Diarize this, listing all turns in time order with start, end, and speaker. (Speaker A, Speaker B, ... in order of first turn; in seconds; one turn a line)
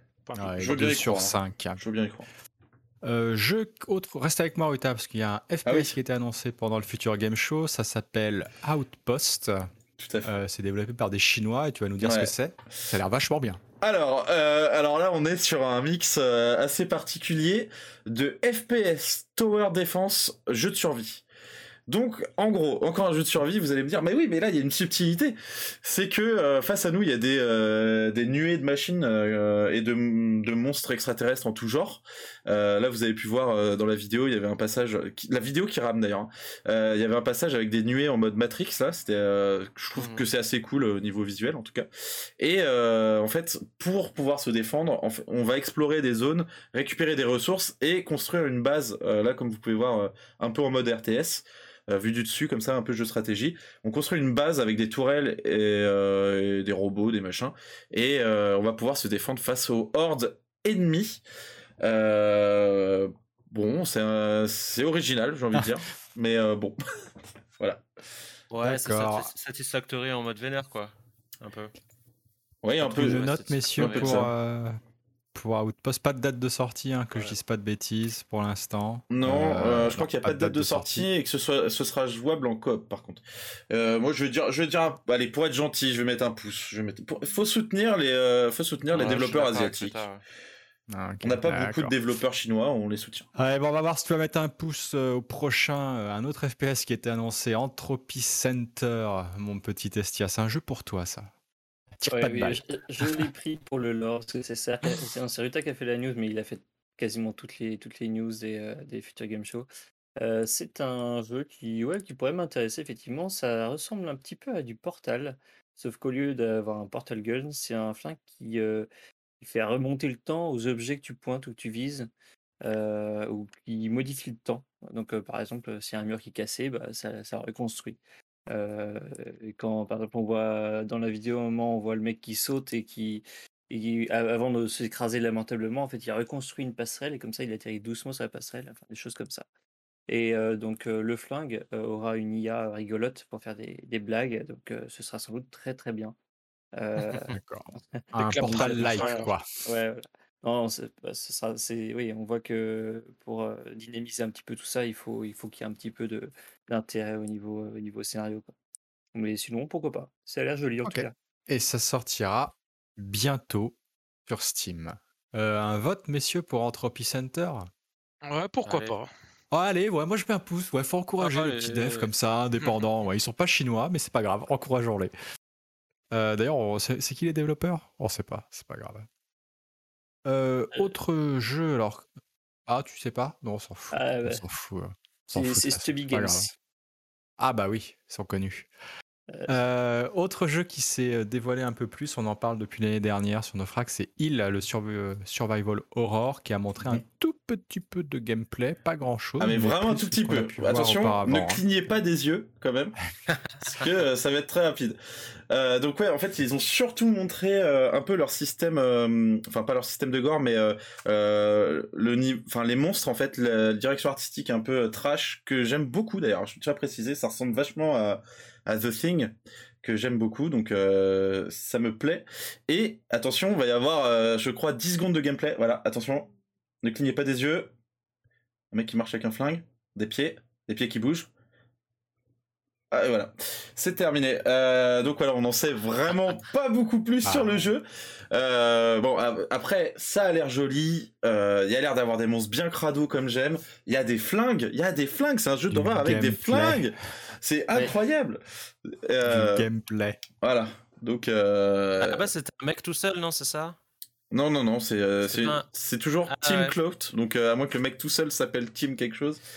Speaker A: 0.2-0.9
Speaker B: 0.3-1.8
Speaker C: 0.6-2.3
Speaker B: 3.0-9.7
Speaker C: 5.6-5.9
Speaker C: 10.0-10.3
Speaker B: 10.2-13.6
Speaker C: 12.0-12.3
Speaker C: 13.8-21.2
Speaker C: 21.9-41.9
Speaker D: 40.0-40.3
Speaker C: 42.4-61.2
Speaker C: 61.8-66.8
Speaker D: 68.5-71.7
Speaker B: 68.6-69.3
Speaker C: 72.6-73.2
Speaker B: 72.8-74.8
Speaker D: 72.9-74.3
Speaker C: 73.8-74.3
Speaker B: 75.3-81.1
Speaker C: 79.1-90.0
Speaker D: 88.9-90.2
Speaker B: 90.9-91.9
Speaker C: 91.2-93.3
Speaker B: 93.3-101.3
Speaker B: 102.0-103.2
Speaker E: 102.1-118.9
Speaker E: 119.4-122.1
Speaker E: 122.6-128.0
Speaker E: 128.5-139.4
Speaker E: 140.1-146.1
Speaker E: 146.7-147.3
Speaker B: 147.3-149.4
Speaker E: 147.9-158.5
Speaker A: 148.1-149.3
Speaker E: 159.1-161.1
Speaker B: 160.8-163.8
Speaker B: 164.3-167.7
Speaker A: 168.2-169.1
Speaker D: 168.7-168.9
Speaker B: 169.5-175.1
Speaker D: 171.2-172.1
Speaker B: 176.1-179.1
Speaker B: 180.2-182.1
Speaker B: 182.7-186.5
Speaker E: 183.9-184.4
Speaker E: 185.3-186.5
Speaker B: 187.4-188.7
Speaker E: 189.3-189.6
Speaker B: 189.5-201.6
Speaker C: 199.4-203.0
Speaker C: 203.6-205.0
Speaker C: 205.5-226.3
Speaker C: 226.8-227.7
Speaker C: 228.7-231.3
Speaker C: 232.9-249.7
Speaker B: 237.2-237.7
Speaker B: 245.7-246.9
Speaker B: 249.2-250.2
Speaker C: 250.4-252.3
Speaker D: 252.0-253.8
Speaker C: 254.3-259.4
Speaker D: 255.2-255.7
Speaker D: 256.3-256.8